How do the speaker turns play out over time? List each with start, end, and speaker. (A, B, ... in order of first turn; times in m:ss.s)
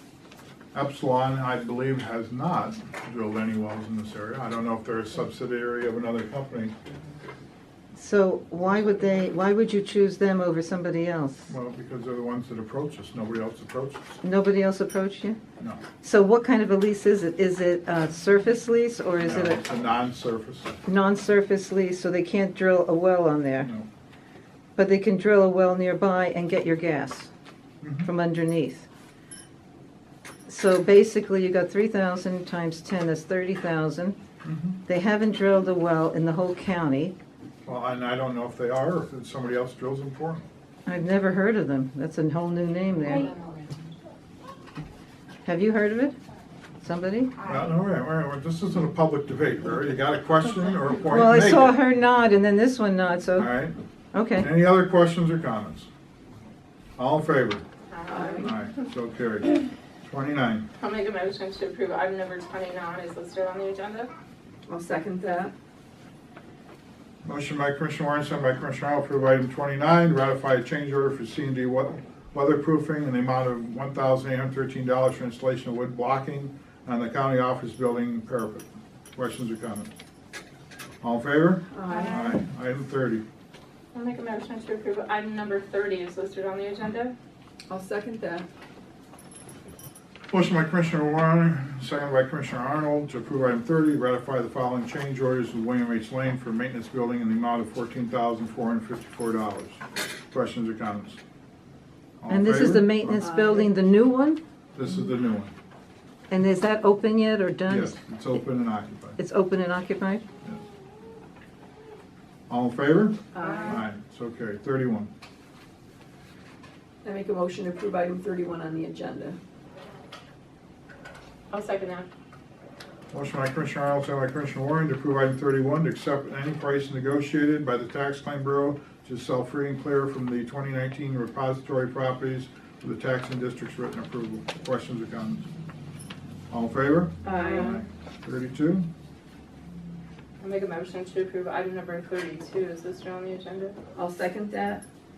0:00.7-0:06.7 A
0:07.9-0:11.5 B
0:11.5-0:14.1 A
0:14.2-0:15.4 B
0:16.0-0:19.6 B
0:19.2-0:20.7 A
0:20.8-0:23.7 B
0:24.8-0:27.3 B
0:27.8-0:28.1 A
0:28.0-0:28.9 B
0:30.4-0:34.2 B
0:34.4-0:34.8 A
0:34.8-0:37.1 B
0:37.6-0:40.5 A
0:40.8-0:43.3 B
0:43.1-0:43.9 C
0:45.4-0:46.2 B
0:46.8-0:47.3 B
0:47.4-0:51.8 A
0:51.1-0:53.6 B
0:53.4-0:53.8 A
0:54.1-0:54.5 B
0:54.4-0:55.9 A
0:57.0-0:57.6 A
0:57.9-0:58.6 C
0:58.1-0:58.6 D
0:58.4-1:00.6 A
1:00.8-1:04.1 C
1:04.7-1:05.5 D
1:07.2-1:19.9 A
1:21.0-1:23.2 A
1:21.7-1:22.3 D
1:21.9-1:22.4 C
1:23.9-1:27.1 C
1:27.7-1:28.5 D
1:30.3-1:41.2 A
1:42.2-1:43.3 A
1:42.3-1:44.4 B
1:43.2-1:43.7 D
1:44.8-1:45.5 A
1:46.3-1:48.0 B
1:47.7-1:49.2 A
1:49.2-1:50.2 B
1:52.5-1:55.1 A
1:53.3-1:53.8 D
1:53.4-1:53.8 C
1:57.0-1:59.4 D
2:01.5-2:02.1 C
2:03.1-2:15.5 A
2:16.5-2:18.9 A
2:17.2-2:17.8 D
2:17.3-2:17.8 C
2:20.4-2:23.8 C
2:23.9-2:24.8 D